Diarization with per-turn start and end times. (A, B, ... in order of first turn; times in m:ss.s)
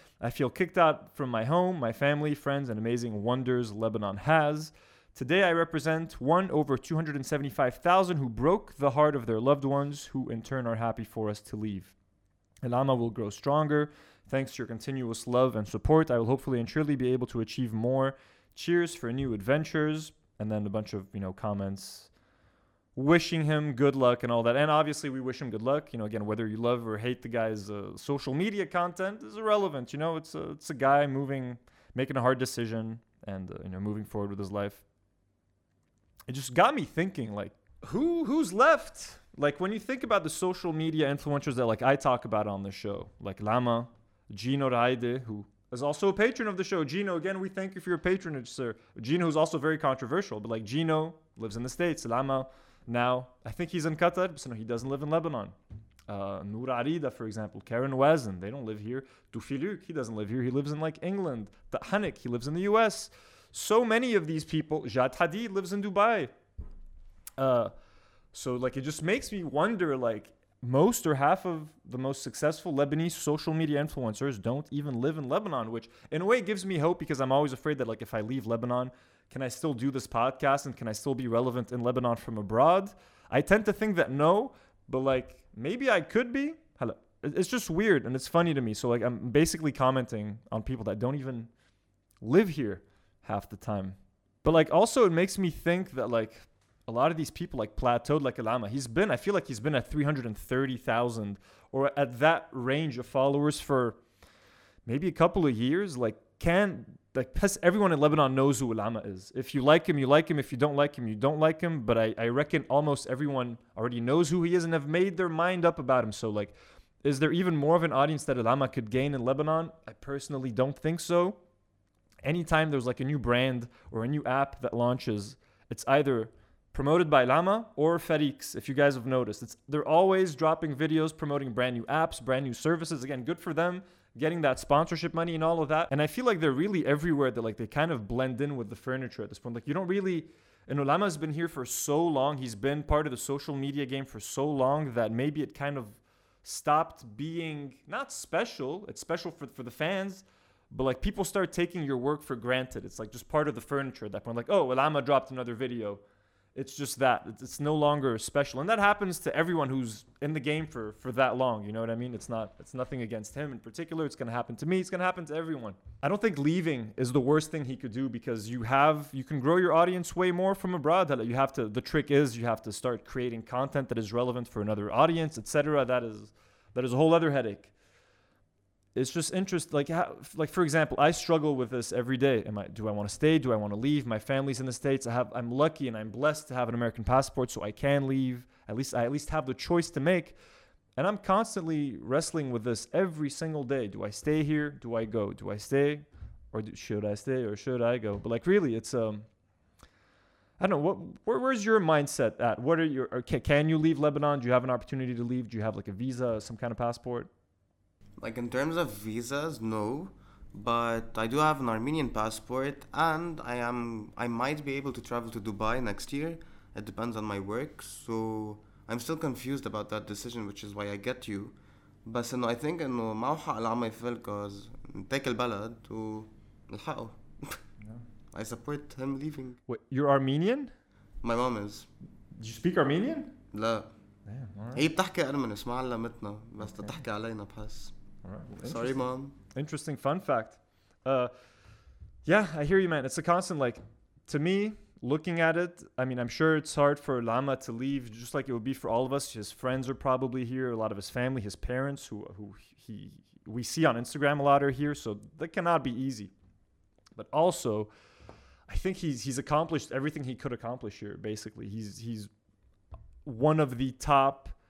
0:00.2-0:11.9 A
0:12.6-0:22.1 A
0:22.9-0:34.8 A
0:36.3-0:55.5 A
0:56.1-1:06.3 A
1:07.4-1:07.7 A
1:08.3-1:31.5 A
1:32.2-1:44.0 A
1:44.8-2:01.4 A
2:02.2-2:36.0 A
2:36.5-2:57.7 A
2:58.9-3:10.4 A
3:11.0-3:19.2 A
3:20.6-3:27.3 A
3:28.2-3:47.6 B
3:48.3-3:49.6 B
3:49.7-3:50.7 A
3:51.2-3:51.9 B
3:52.4-3:53.3 A
3:53.5-3:53.9 B
3:54.3-3:54.8 A
3:54.7-3:57.9 B
3:58.2-3:59.0 A
3:58.6-3:59.4 B
3:59.5-4:01.3 A
4:02.2-4:16.3 A
4:17.2-4:17.9 A
4:18.7-4:22.3 A
4:23.2-4:24.5 A